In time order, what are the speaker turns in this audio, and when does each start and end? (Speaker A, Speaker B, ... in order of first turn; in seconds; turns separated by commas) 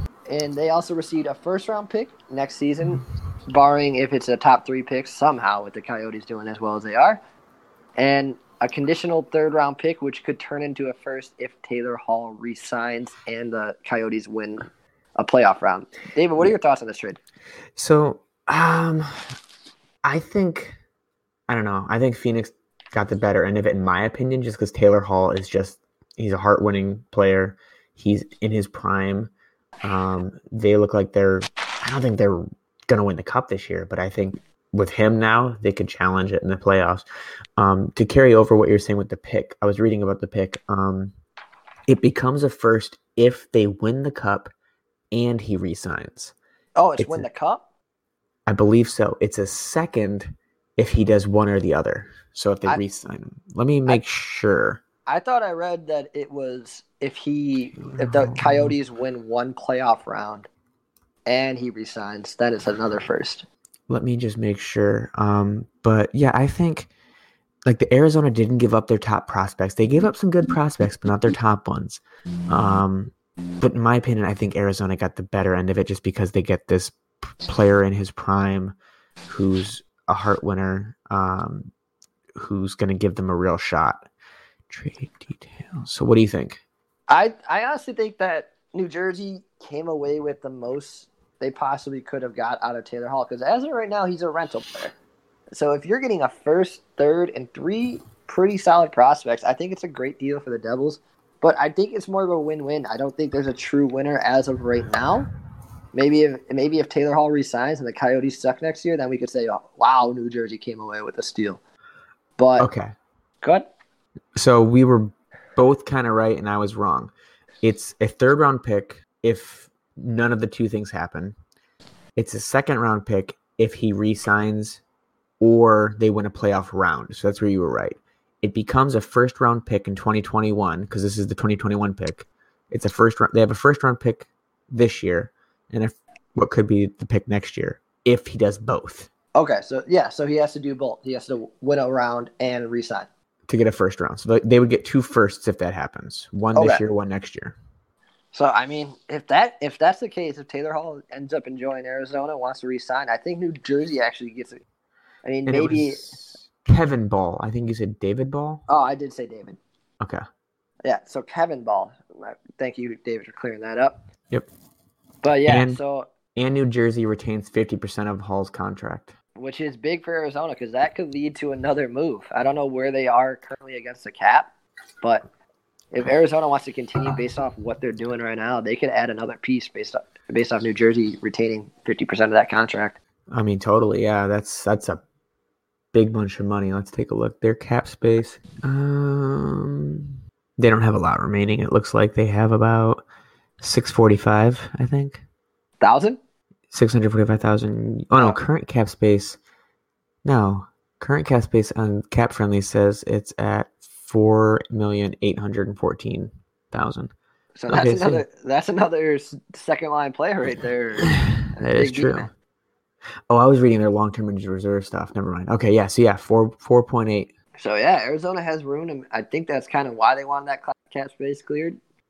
Speaker A: 0.3-7.2, Speaker A: 8.0-17.2, Speaker B: 17.8-19.4, Speaker B: 20.0-20.8, Speaker B: 21.5-29.3, Speaker B: 29.8-37.0, Speaker B: 37.6-41.1, Speaker B: 41.9-44.5, Speaker B: 45.1-46.3, Speaker A: 46.8-47.6, Speaker B: 47.0-47.2, Speaker B: 48.5-54.8, Speaker A: 55.1-60.5, Speaker B: 57.8-58.7, Speaker A: 61.2-63.5, Speaker B: 63.9-66.9, Speaker B: 67.6-78.8, Speaker B: 79.3-81.7, Speaker B: 82.3-84.1, Speaker B: 84.7-86.6, Speaker A: 87.1-94.9, Speaker A: 95.5-105.3, Speaker A: 105.9-111.6, Speaker A: 112.4-112.7, Speaker B: 112.6-112.9, Speaker B: 114.3-121.3, Speaker B: 122.2-124.8, Speaker B: 125.4-139.1, Speaker A: 139.3-143.1, Speaker B: 143.5-147.6, Speaker A: 146.5-146.8, Speaker A: 148.3-154.6, Speaker A: 155.2-156.1, Speaker B: 155.4-158.6, Speaker A: 158.7-159.6, Speaker A: 160.8-164.0, Speaker A: 165.2-166.1, Speaker B: 165.4-165.8, Speaker B: 166.3-169.1, Speaker A: 169.3-174.5, Speaker A: 175.9-183.0, Speaker B: 183.3-185.0, Speaker B: 185.9-193.0, Speaker B: 193.6-195.2, Speaker A: 195.8-196.2, Speaker B: 196.7-199.4, Speaker A: 198.1-198.4, Speaker B: 200.2-207.1, Speaker A: 207.6-212.3, Speaker B: 207.7-208.2, Speaker B: 211.3-212.3, Speaker B: 213.3-217.3, Speaker A: 217.6-221.8